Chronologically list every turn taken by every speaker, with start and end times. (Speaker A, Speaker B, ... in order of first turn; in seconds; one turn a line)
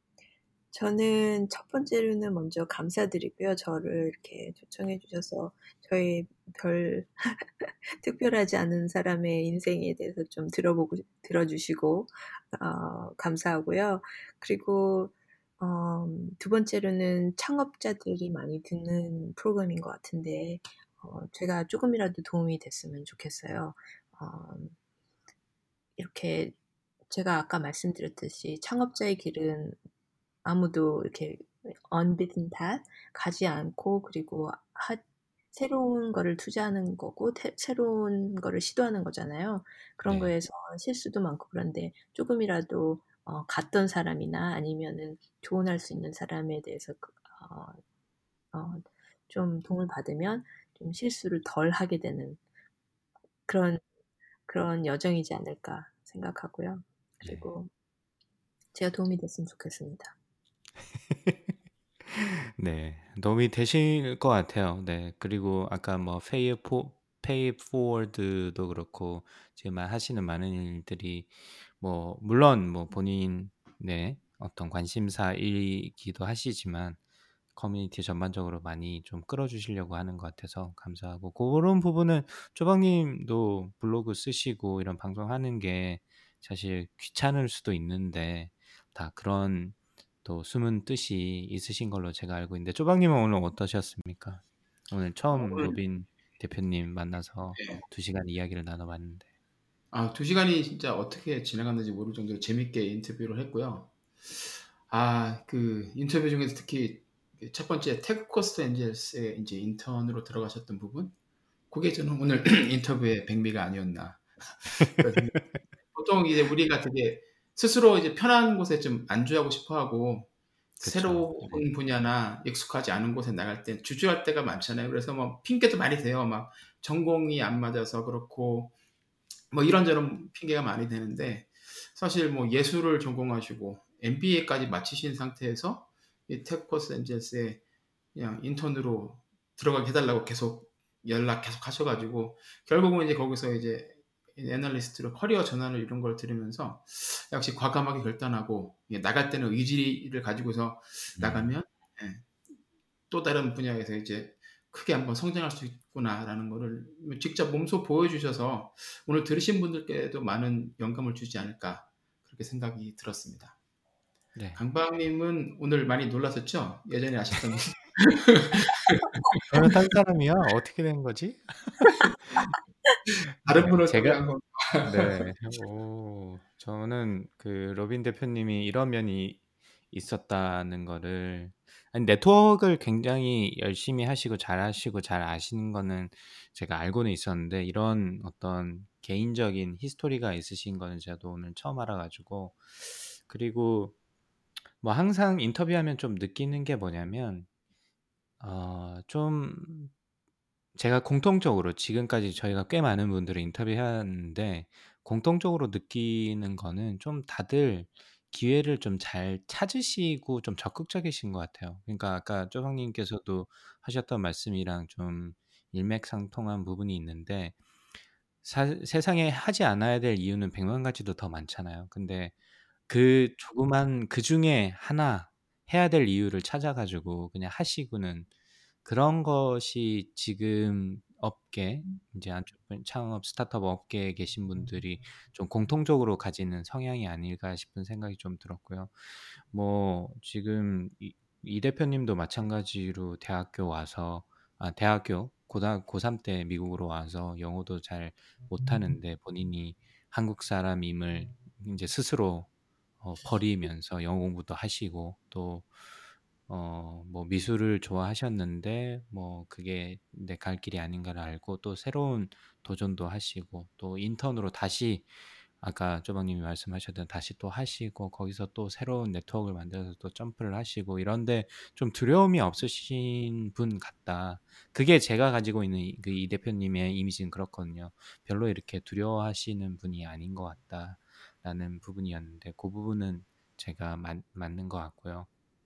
Speaker A: 0.7-24.8
Speaker A: 26.0-26.6
Speaker A: 27.1-29.8
Speaker A: 30.4-35.0
Speaker A: 35.5-47.8
Speaker B: 40.0-40.3
Speaker A: 48.5-52.4
Speaker A: 53.5-53.8
Speaker A: 54.5-57.7
Speaker B: 57.2-57.5
Speaker A: 58.7-60.1
Speaker B: 60.8-61.5
Speaker B: 62.1-77.0
Speaker B: 77.5-99.3
Speaker C: 95.3-95.8
Speaker C: 97.6-97.8
Speaker C: 99.9-111.1
Speaker C: 111.7-128.7
Speaker B: 120.8-121.7
Speaker C: 129.5-137.6
Speaker C: 138.2-152.3
Speaker B: 151.2-151.5
Speaker C: 153.1-163.6
Speaker B: 164.3-164.6
Speaker C: 164.6-169.7
Speaker B: 169.5-172.6
Speaker C: 173.2-175.2
Speaker B: 173.4-174.2
Speaker B: 174.8-193.9
Speaker B: 194.8-197.5
Speaker B: 198.4-199.9
Speaker B: 200.8-217.6
Speaker B: 218.4-222.3
Speaker B: 222.9-228.3
Speaker B: 228.8-252.5
Speaker B: 253.0-255.7
Speaker B: 256.5-285.3